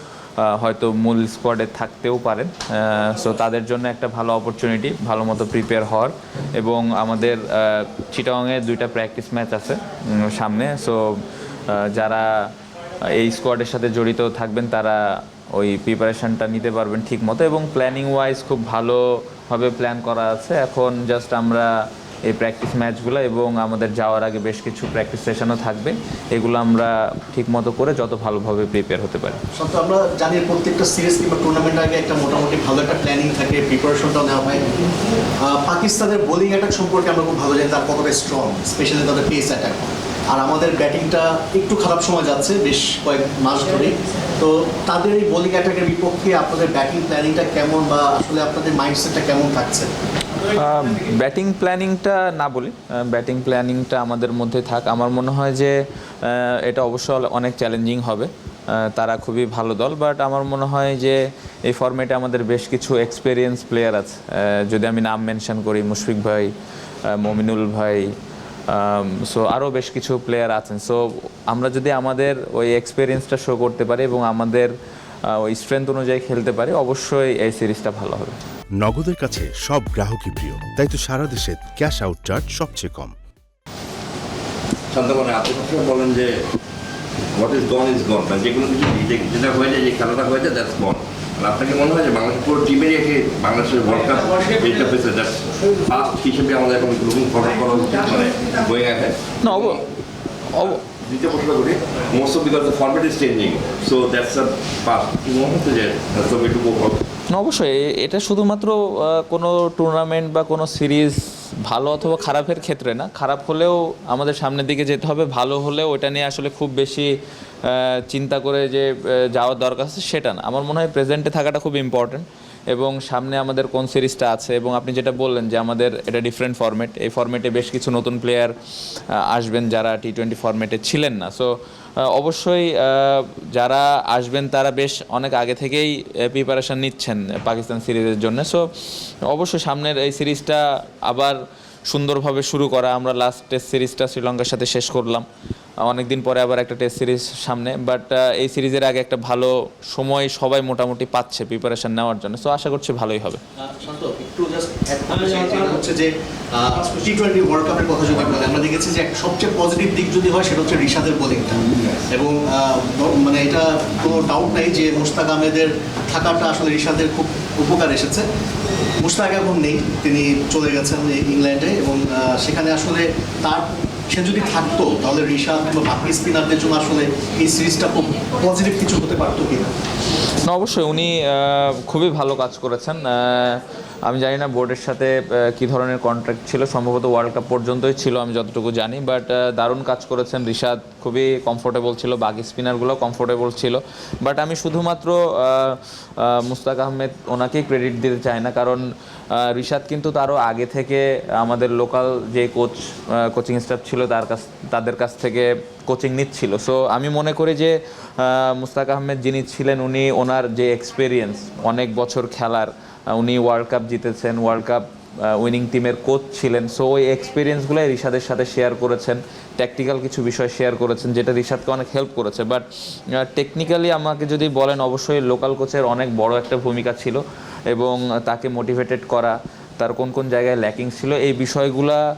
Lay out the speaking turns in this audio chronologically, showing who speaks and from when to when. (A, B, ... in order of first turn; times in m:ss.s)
0:00.4-0:12.5 A
0:13.0-0:29.4 A
0:29.5-0:49.9 B
0:50.4-1:06.5 A
1:07.0-1:08.1 A
1:08.7-1:14.7 A
1:15.2-1:18.4 A
1:18.7-1:23.1 C
1:24.9-1:26.4 D
1:27.3-1:39.8 D
1:39.4-1:39.8 A
1:40.5-1:40.8 A
1:40.8-1:47.0 D
1:47.3-1:57.1 A
1:57.6-2:08.5 A
2:09.1-2:18.7 A
2:19.2-2:25.2 A
2:25.8-2:33.4 A
2:33.6-2:48.3 B
2:49.0-2:59.7 B
3:00.4-3:52.0 A